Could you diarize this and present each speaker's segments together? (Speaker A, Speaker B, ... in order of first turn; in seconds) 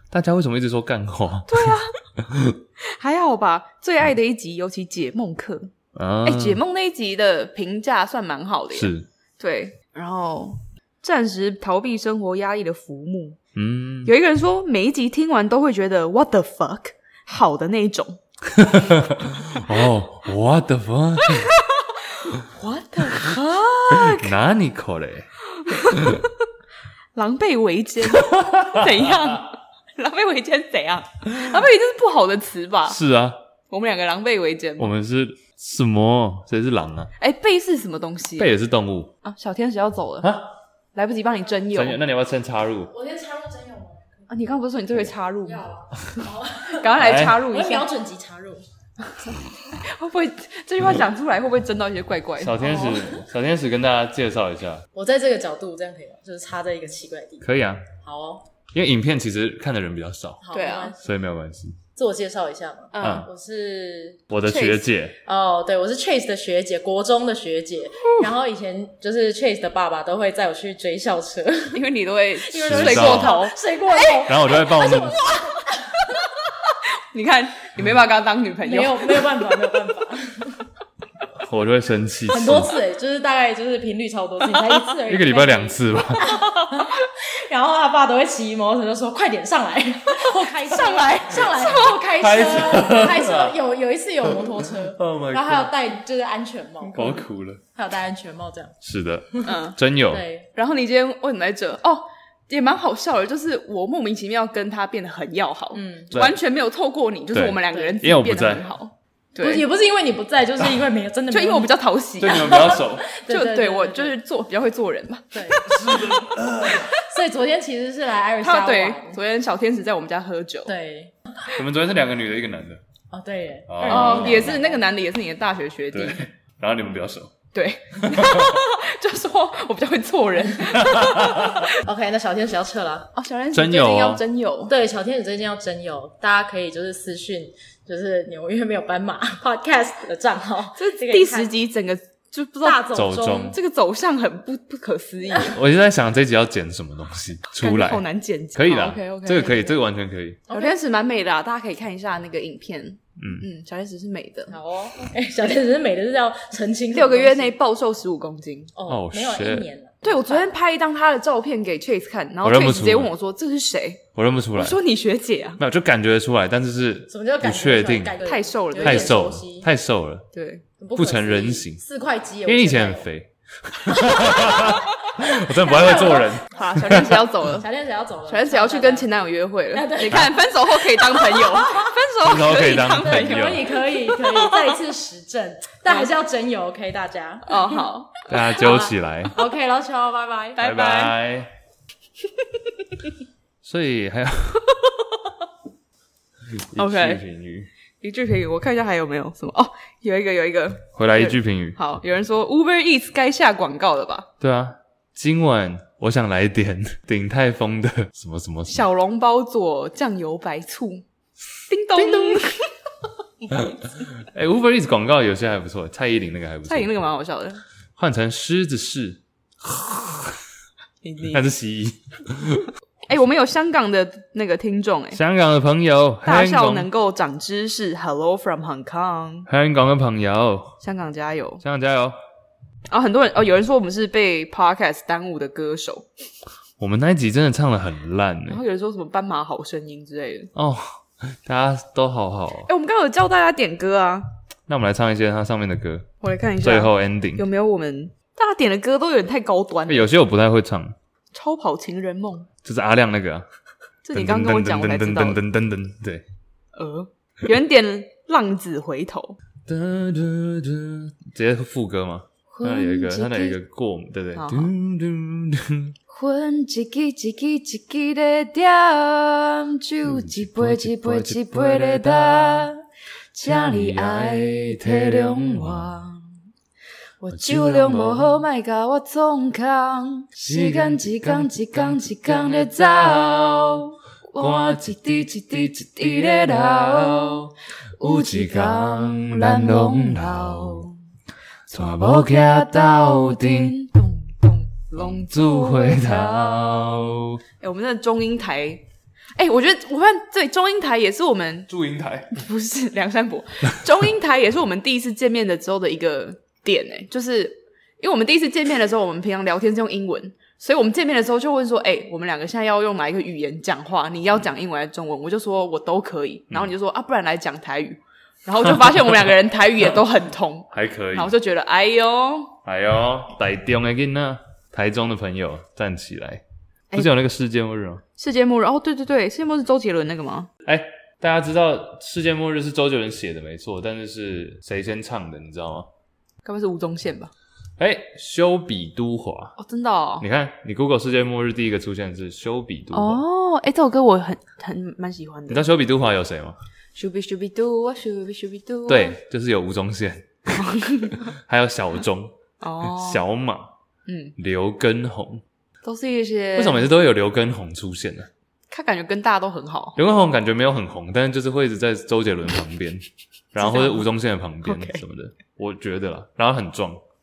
Speaker A: 0.1-2.6, 5.9-6.6, 8.7-9.1, 13.6-14.1, 18.5-21.5, 23.9-25.3, 25.8-26.2, 28.1-29.1, 32.9-33.4, 34.8-37.1, 38.4-39.1, 40.2-40.5, 41.7-42.9, 47.0-47.4, 52.4-54.9, 57.4-57.9, 58.7-60.4, 61.0-61.8, 63.0-63.3, 64.3-65.2, 72.6-73.4, 74.2-75.2, 81.4-82.7, 85.1-86.4, 92.2-93.5, 94.3-95.7, 96.9-97.6, 98.8-100.2, 107.3-108.7, 112.2-113.1, 115.7-116.9, 121.5-122.8, 123.7-124.6, 125.9-127.3, 128.0-128.6, 130.7-131.7, 133.5-134.2, 142.9-143.6, 145.5-148.0, 148.6-150.4, 153.2-153.5, 158.9-159.7, 162.4-163.1, 164.2-164.8, 165.6-168.2, 168.8-170.3, 170.9-171.8, 172.4-177.0, 182.2-183.8, 188.3-189.4, 190.6-191.5, 193.6-194.7, 196.5-197.7, 200.9-201.8, 204.4-208.9, 213.5-216.9, 218.0-220.4, 221.3-222.7, 225.1-226.9, 229.5-230.8, 231.6-232.2, 236.8-238.6, 240.6-242.7, 244.7-247.4, 249.9-250.9, 252.6-253.5, 254.1-256.2, 259.7-265.9, 270.0-272.7, 273.4-275.9, 277.3-278.4, 280.5-281.9, 284.4-284.8, 286.2-287.0, 288.0-290.9, 291.7-293.8, 294.9-297.4, 301.7-302.4, 320.7-321.3, 322.7-326.4, 326.9-328.0, 330.7-335.9, 337.8-339.6, 340.2-343.2, 345.5-346.6, 348.9-353.7, 354.4-355.4, 356.6-358.3, 360.0-367.0
Speaker B: 1.5-2.0, 2.8-5.7, 6.2-13.4, 14.0-18.2, 21.2-24.4, 25.5-26.3, 27.1-33.0, 33.7-34.9, 37.2-38.5, 39.2-40.3, 40.9-42.0, 44.3-45.7, 46.6-47.9, 49.2-53.2, 60.5-61.0, 62.9-63.3, 64.5-64.8, 71.7-75.4, 76.5-79.8, 84.5-84.9, 86.4-86.9, 90.1-92.1, 99.4-99.8, 100.5-109.7, 111.3-117.0, 118.4-120.7, 123.9-126.2, 127.5-131.8, 133.1-134.7, 140.8-145.6, 147.6-149.7, 150.5-154.6, 156.9-158.7, 160.0-164.0, 164.6-165.6, 168.2-169.2, 170.3-170.7, 176.5-177.7, 178.3-184.8, 185.9-186.1, 187.5-188.8, 190.6-191.2, 192.4-193.1, 194.7-195.3, 196.8-197.2, 198.0-204.3, 208.7-211.1, 211.7-212.7, 216.7-217.6, 221.0-221.4, 223.1-225.2, 226.2-229.5, 230.8-231.6, 232.9-236.1, 238.5-240.5, 242.7-244.3, 246.2-250.1, 251.3-252.5, 254.0-255.4, 256.7-259.4, 262.5-263.6, 264.4-264.7, 266.1-272.8, 273.3-276.3, 277.2-291.0, 291.7-296.7, 297.6-298.9, 299.4-301.7, 302.3-322.6, 328.2-330.5, 336.4-337.3, 339.6-340.3, 342.9-345.7, 346.9-349.2, 350.6-351.2, 352.6-353.2, 354.1-354.3, 355.8-356.9, 358.7-360.0, 363.6-364.1, 364.6-365.0
Speaker C: 42.9-44.3, 45.5-48.6, 52.7-53.1, 54.9-57.5, 58.0-58.5, 60.4-61.0, 62.0-64.2, 65.2-71.9, 72.5-76.1, 78.7-80.6, 82.3-98.8, 99.3-100.5, 105.7-106.2, 107.7-108.0, 109.4-111.7, 112.3-114.2, 115.3-116.2, 116.8-119.2, 120.7-121.5, 123.1-124.9, 131.7-133.1, 134.7-141.5, 142.6-143.6, 149.3-149.7, 150.5-150.8, 154.5-157.5, 158.8-160.6, 167.1-169.7, 170.8-173.1, 173.9-174.8, 175.3-179.1, 179.7-181.9, 182.7-187.8, 188.6-190.7